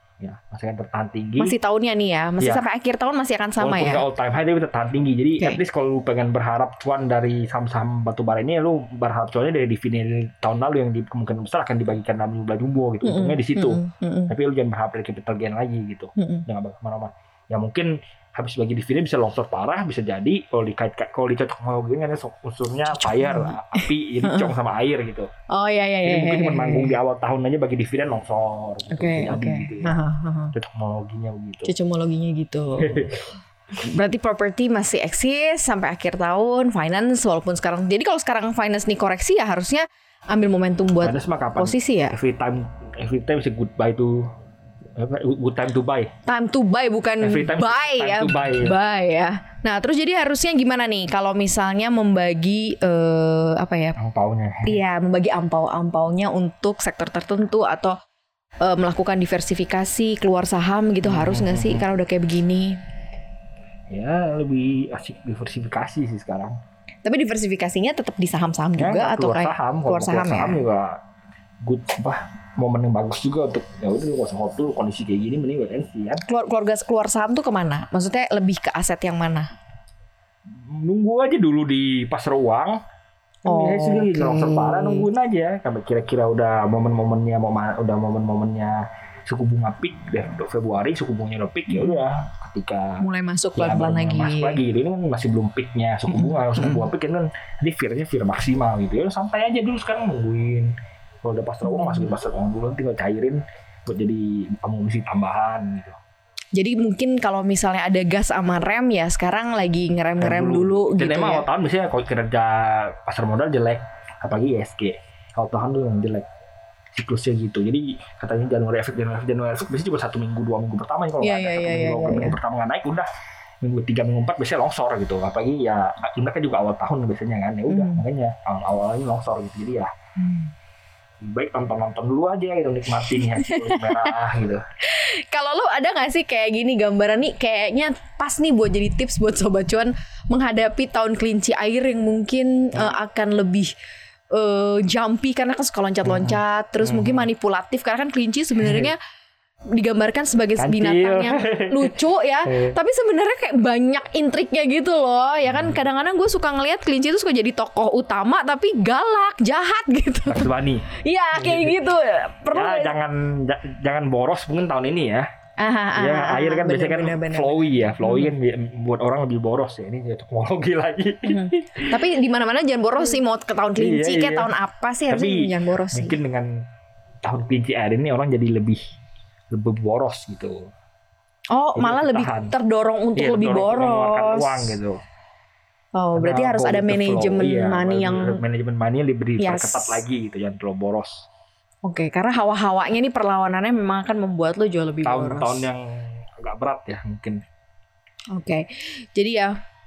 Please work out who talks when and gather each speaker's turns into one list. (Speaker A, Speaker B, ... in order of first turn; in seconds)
Speaker A: 0.2-1.5, 3.6-25.3, 26.0-30.0, 30.5-31.7, 32.8-33.3, 41.0-44.3, 45.0-46.1, 47.2-48.8, 54.0-54.8, 61.0-61.8, 63.9-66.6, 68.8-71.0, 71.6-76.2, 80.5-82.8, 83.4-106.0, 110.2-116.3, 116.9-123.1, 123.6-129.9, 131.2-134.6, 146.1-147.3, 148.6-148.9, 150.6-152.8, 155.5-155.8, 160.3-161.8, 162.5-165.3, 165.9-172.0, 173.8-174.5, 175.1-176.6, 177.2-178.8, 179.5-180.7, 181.8-182.5, 183.2-185.0, 186.2-191.3, 195.0-197.4
Speaker B: 1.4-4.0, 13.0-14.3, 16.2-16.4, 22.9-24.5, 25.5-27.0, 28.9-30.6, 31.6-33.1, 33.7-42.2, 46.2-54.0, 54.6-57.9, 58.6-62.8, 67.0-70.6, 76.3-79.5, 83.4-85.1, 91.7-92.0, 93.0-94.6, 96.1-96.8, 101.6-102.1, 106.5-111.5, 121.2-122.4, 127.7-128.1, 133.1-134.2, 134.8-143.7, 144.3-149.0, 149.7-162.9, 165.6-168.3, 171.2-176.2, 181.5-184.8, 185.9-188.4, 189.4-190.0, 191.8-195.7, 198.3-199.6